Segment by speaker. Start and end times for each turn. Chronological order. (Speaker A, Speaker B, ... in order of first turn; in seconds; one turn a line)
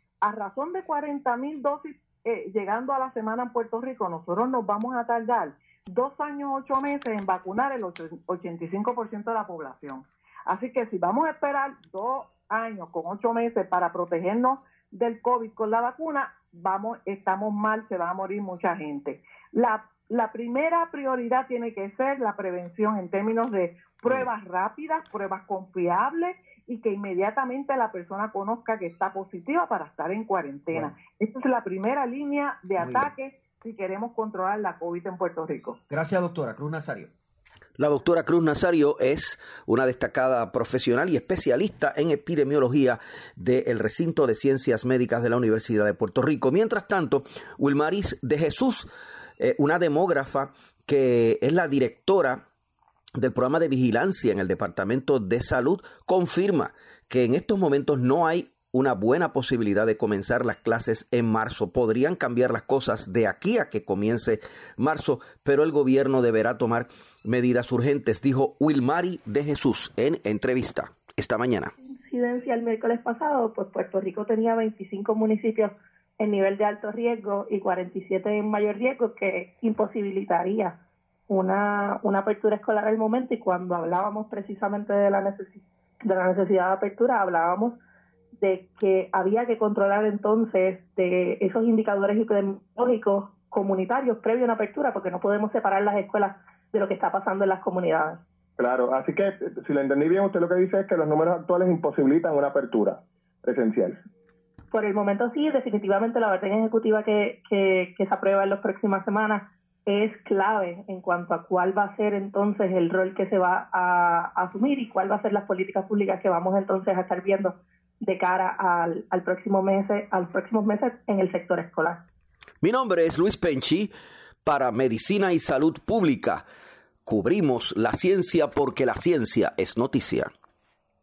Speaker A: 0.2-35.8
Speaker B: 32.8-33.1
Speaker B: 35.9-37.1
Speaker B: 37.8-48.9
Speaker B: 49.4-52.4
Speaker B: 53.2-71.7
Speaker C: 71.8-80.8
Speaker C: 81.3-87.8
Speaker C: 88.4-98.2
Speaker D: 98.6-104.0
Speaker C: 104.7-122.0
Speaker B: 122.6-123.9
Speaker B: 124.4-126.4
Speaker B: 127.0-130.3